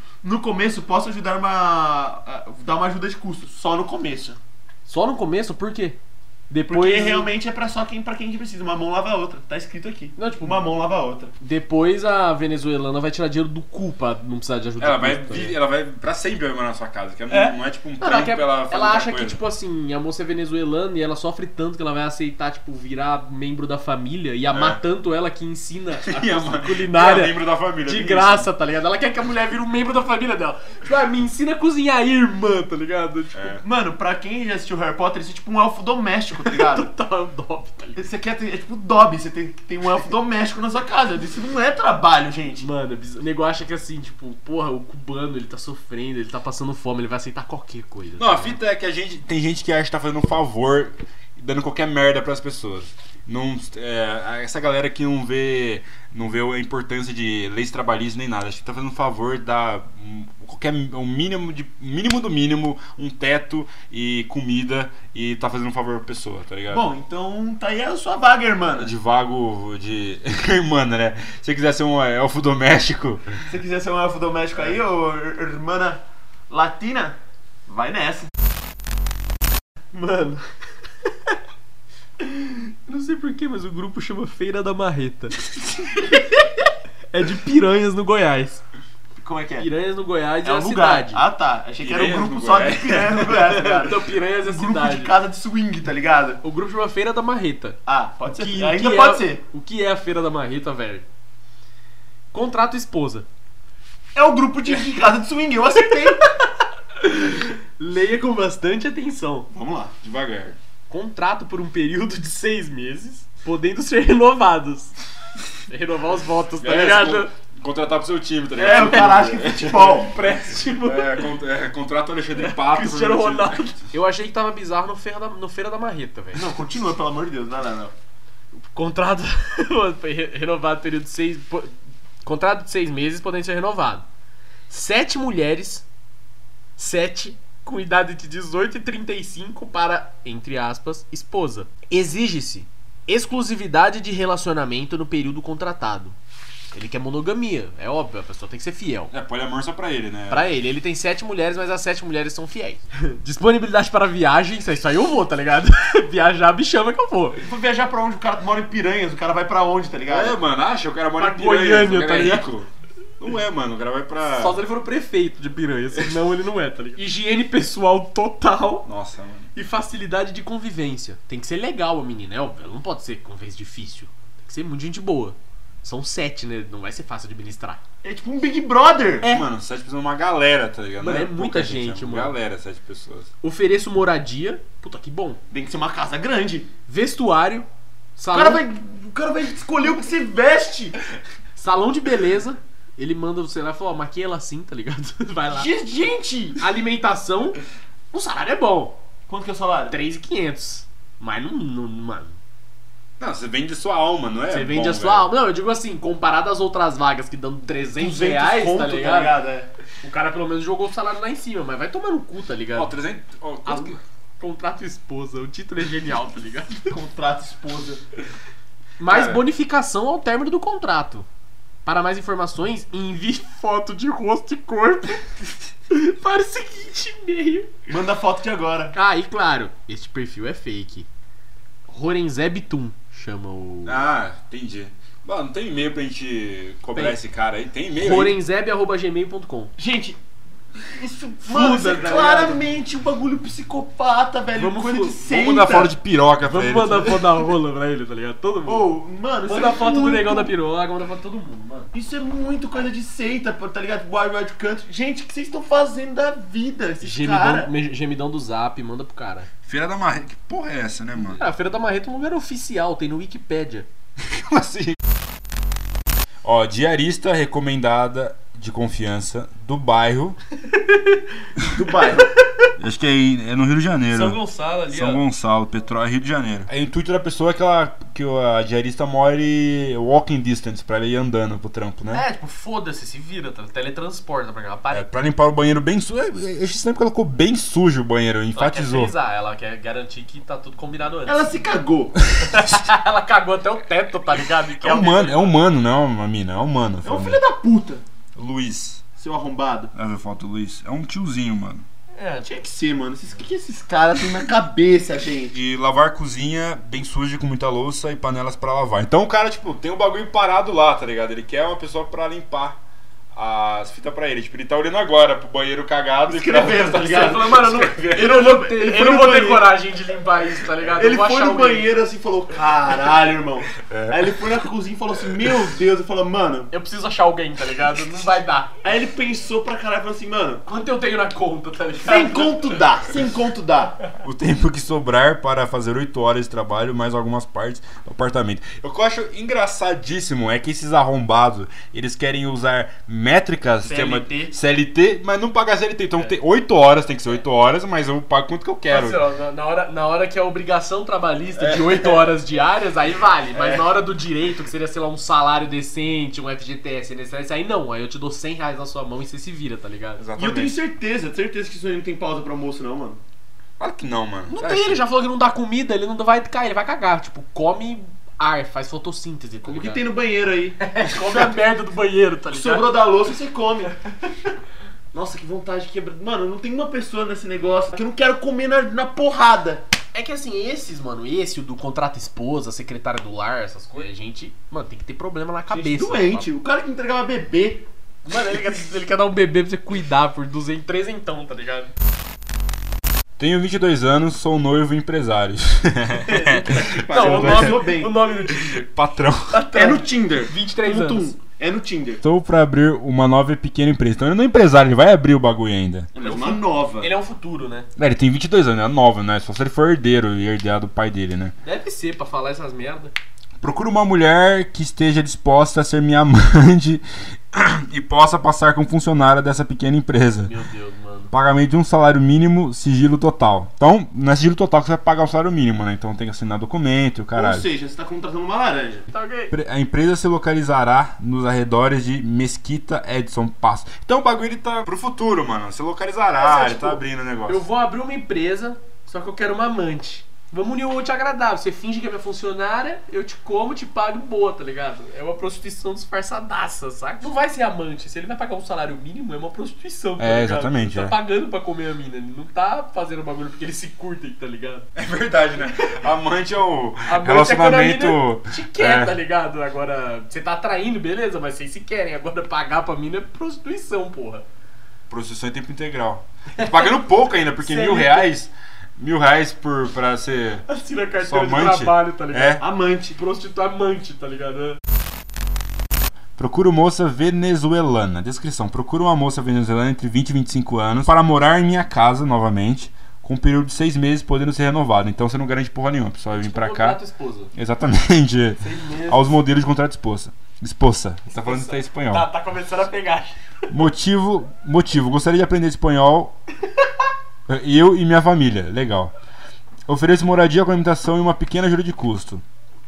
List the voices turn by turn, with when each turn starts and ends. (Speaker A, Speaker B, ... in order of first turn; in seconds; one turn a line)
Speaker A: 0.2-4.4
Speaker B: 4.9-6.0
Speaker B: 6.5-7.3
Speaker A: 6.7-11.3
Speaker B: 10.2-10.6
Speaker B: 11.4-15.6
Speaker C: 14.8-19.4
Speaker B: 17.3-33.6
Speaker C: 24.5-24.8
Speaker C: 26.0-28.5
Speaker C: 33.3-33.6
Speaker A: 33.6-36.9
Speaker B: 36.4-38.0
Speaker A: 38.0-42.7
Speaker B: 42.6-48.6
Speaker C: 48.2-66.9
Speaker A: 66.7-68.9
Speaker C: 68.7-73.4
Speaker A: 73.5-78.3
Speaker B: 79.9-80.4
Speaker B: 82.2-85.3
Speaker B: 86.0-88.6
Speaker A: 89.2-89.7
Speaker B: 89.6-91.2
Speaker A: 90.4-96.4
Speaker C: 91.8-93.8
Speaker B: 93.6-95.1
Speaker B: 96.4-97.8
Speaker A: 97.8-99.4
Speaker B: 98.3-101.0
Speaker B: 102.3-103.3
Speaker A: 104.1-106.2
Speaker B: 106.0-109.5
Speaker A: 109.5-109.9
Speaker C: 110.0-110.6
Speaker B: 110.9-114.9
Speaker B: 115.7-117.3
Speaker C: 116.6-123.8
Speaker B: 118.6-121.3
Speaker A: 118.6-120.1
Speaker B: 122.3-126.5
Speaker A: 126.3-127.9
Speaker B: 128.7-131.7
Speaker B: 132.2-134.1
Speaker B: 134.7-135.8
Speaker B: 136.8-146.2
Speaker B: 146.7-149.1
Speaker C: 149.1-150.5
Speaker B: 150.3-157.4
Speaker A: 157.4-160.4
Speaker C: 160.1-162.7
Speaker B: 161.2-162.5
Speaker C: 163.2-164.6
Speaker B: 164.3-168.9
Speaker C: 168.8-169.5
Speaker B: 169.5-177.8
Speaker A: 178.0-179.4
Speaker C: 179.2-183.3
Speaker B: 181.0-182.3
Speaker B: 183.4-185.4
Speaker A: 185.5-186.7
Speaker B: 186.9-188.6
Speaker A: 188.3-191.0
Speaker B: 191.6-195.7
Speaker A: 195.5-196.6
Speaker B: 196.6-197.6
Speaker B: 198.1-198.9
Speaker A: 199.3-200.0
Speaker B: 199.9-202.4
Speaker C: 203.2-205.3
Speaker B: 204.5-209.3
Speaker A: 208.0-209.7
Speaker B: 210.0-213.0
Speaker C: 212.7-214.0
Speaker B: 213.7-216.8
Speaker A: 216.9-218.0
Speaker B: 219.0-221.3
Speaker C: 219.1-219.4
Speaker B: 221.8-227.7
Speaker A: 227.9-228.9
Speaker B: 228.9-231.1
Speaker B: 231.9-234.0
Speaker C: 233.8-238.4
Speaker B: 238.0-239.7
Speaker A: 239.8-240.2
Speaker A: 240.9-245.9
Speaker B: 241.4-242.7
Speaker B: 244.6-245.2
Speaker C: 245.2-247.2
Speaker B: 246.4-248.9
Speaker A: 248.7-250.5
Speaker B: 249.5-251.9
Speaker A: 251.9-257.7
Speaker B: 257.0-259.5
Speaker C: 259.6-261.5
Speaker B: 261.1-263.9
Speaker C: 264.2-265.0
Speaker C: 266.4-270.4
Speaker B: 270.7-271.4
Speaker A: 271.6-272.3
Speaker C: 272.8-282.2
Speaker B: 274.1-275.2
Speaker B: 282.1-285.1
Speaker C: 284.9-289.1
Speaker B: 288.5-291.5
Speaker A: 291.2-292.2
Speaker B: 292.4-295.5
Speaker C: 294.8-297.4
Speaker A: 297.0-298.0
Speaker C: 298.4-299.0
Speaker A: 299.2-299.9
Speaker C: 299.9-301.9
Speaker B: 302.1-302.5
Speaker A: 302.4-305.5
Speaker C: 305.5-312.8
Speaker C: 313.3-318.4
Speaker A: 316.2-319.7
Speaker B: 316.9-321.9
Speaker A: 320.9-326.7
Speaker C: 323.8-324.5
Speaker C: 325.3-325.6
Speaker B: 326.7-328.7
Speaker A: 328.8-330.6
Speaker B: 330.7-332.8
Speaker A: 332.0-334.0
Speaker C: 334.2-349.2
Speaker A: 343.9-344.5
Speaker B: 348.9-360.2
Speaker A: 351.6-352.1
Speaker A: 353.5-353.8
Speaker C: 360.2-360.7
Speaker A: 360.4-363.2
Speaker C: 363.8-365.0
Speaker B: 364.5-370.0
Speaker A: 369.6-371.6
Speaker B: 370.8-372.9
Speaker A: 372.5-373.9
Speaker A: 375.1-379.8
Speaker B: 380.1-386.5
Speaker A: 385.7-387.9
Speaker B: 388.2-391.9
Speaker C: 393.4-397.8
Speaker B: 396.1-398.9
Speaker A: 396.7-398.2
Speaker C: 398.5-399.6
Speaker B: 399.5-401.3
Speaker A: 399.7-402.2
Speaker C: 402.2-406.1
Speaker A: 406.1-407.1
Speaker B: 406.2-407.9
Speaker C: 407.9-411.5
Speaker B: 411.6-413.1
Speaker C: 413.6-420.5
Speaker B: 420.4-421.3
Speaker C: 421.3-427.7
Speaker A: 427.4-429.0
Speaker B: 429.1-429.5
Speaker C: 429.5-437.6
Speaker B: 436.4-454.9
Speaker C: 450.2-451.1
Speaker C: 454.9-459.2
Speaker B: 457.1-464.4
Speaker C: 465.1-470.6
Speaker B: 466.6-468.3
Speaker B: 470.7-474.8
Speaker C: 471.2-472.6
Speaker A: 472.6-473.1
Speaker C: 476.4-487.0
Speaker B: 486.4-487.5
Speaker C: 487.5-492.3
Speaker B: 488.6-489.4
Speaker B: 491.3-493.4
Speaker C: 493.7-496.4
Speaker C: 497.5-499.1
Speaker C: 499.9-502.4